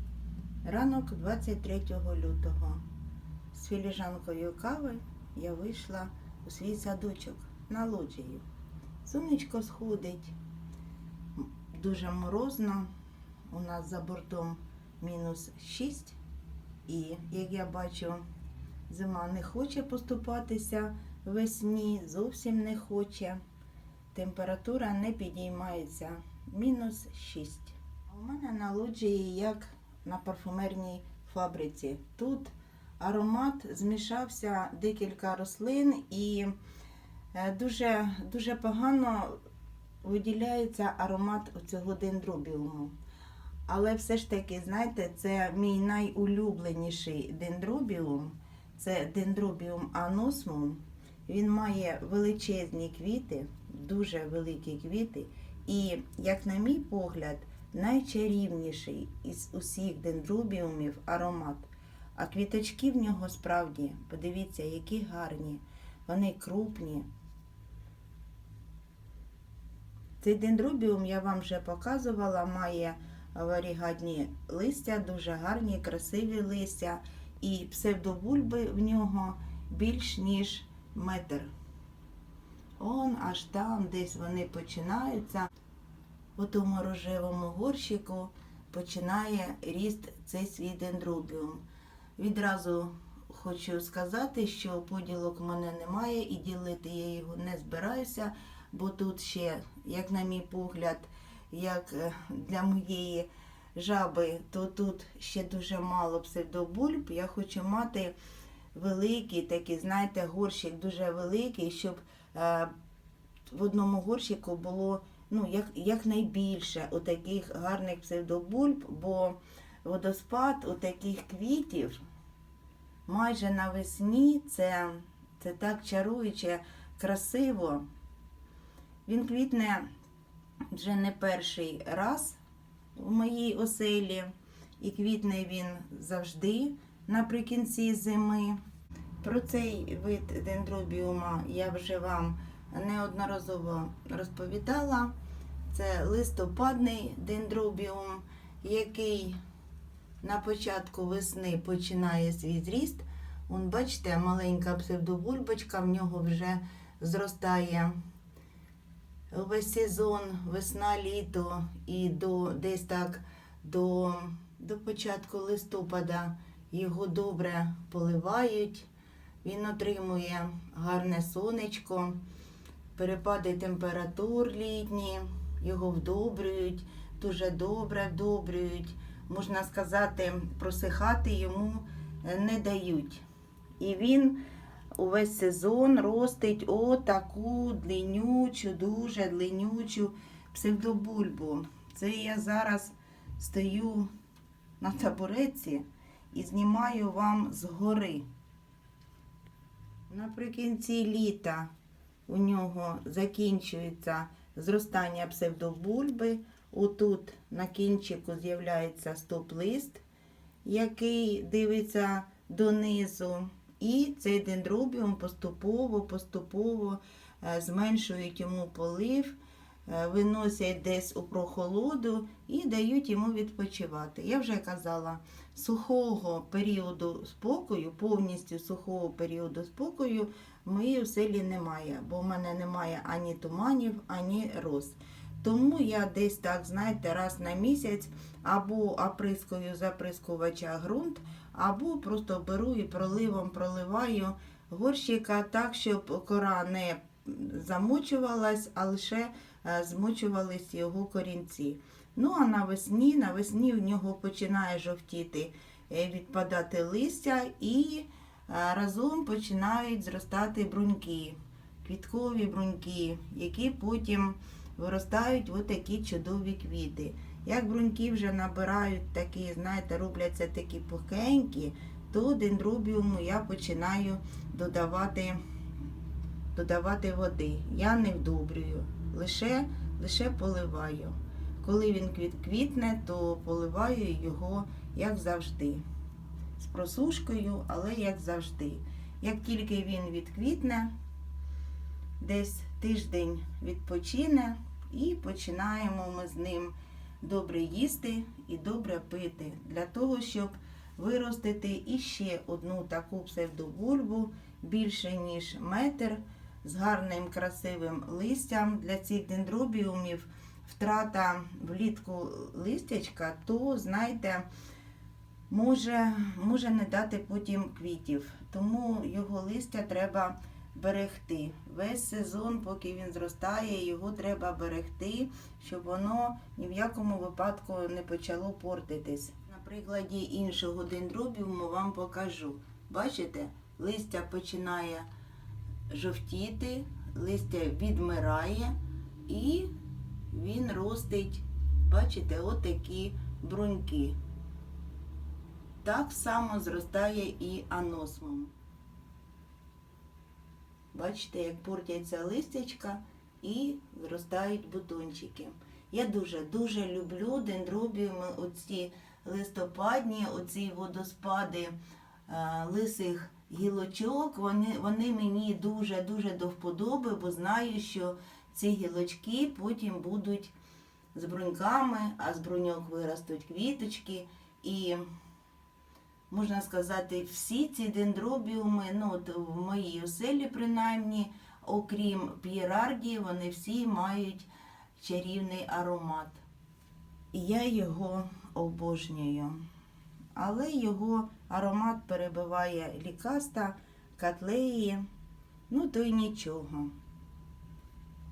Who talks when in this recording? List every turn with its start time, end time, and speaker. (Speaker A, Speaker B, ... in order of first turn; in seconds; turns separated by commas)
Speaker A: 0.6-2.8, Speaker A: 3.5-8.4, Speaker A: 9.0-10.3, Speaker A: 11.4-12.9, Speaker A: 13.5-16.1, Speaker A: 16.9-18.2, Speaker A: 18.9-23.4, Speaker A: 24.1-36.5, Speaker A: 37.3-39.4, Speaker A: 40.0-42.9, Speaker A: 43.7-67.0, Speaker A: 70.2-81.5, Speaker A: 82.8-85.5, Speaker A: 86.3-91.6, Speaker A: 92.2-108.1, Speaker A: 108.7-112.7, Speaker A: 113.5-122.0, Speaker A: 123.1-127.8, Speaker A: 129.1-129.9, Speaker A: 130.7-132.4, Speaker A: 132.9-138.6, Speaker A: 139.2-145.1, Speaker A: 145.7-149.4, Speaker A: 150.2-158.0, Speaker A: 159.3-168.9, Speaker A: 169.4-172.2, Speaker A: 172.9-183.2, Speaker A: 183.8-184.4, Speaker A: 184.9-194.1, Speaker A: 194.8-198.2, Speaker A: 200.1-201.7, Speaker A: 202.3-210.0, Speaker A: 210.6-275.4, Speaker A: 276.5-285.8, Speaker A: 286.6-290.9, Speaker A: 292.2-314.5, Speaker A: 315.5-335.1, Speaker A: 335.9-339.7, Speaker A: 340.3-344.2, Speaker A: 345.8-348.5, Speaker A: 350.9-361.8, Speaker A: 362.3-370.5, Speaker A: 371.1-375.1, Speaker A: 376.3-386.4, Speaker A: 387.3-389.6, Speaker A: 390.3-395.0, Speaker A: 395.7-396.9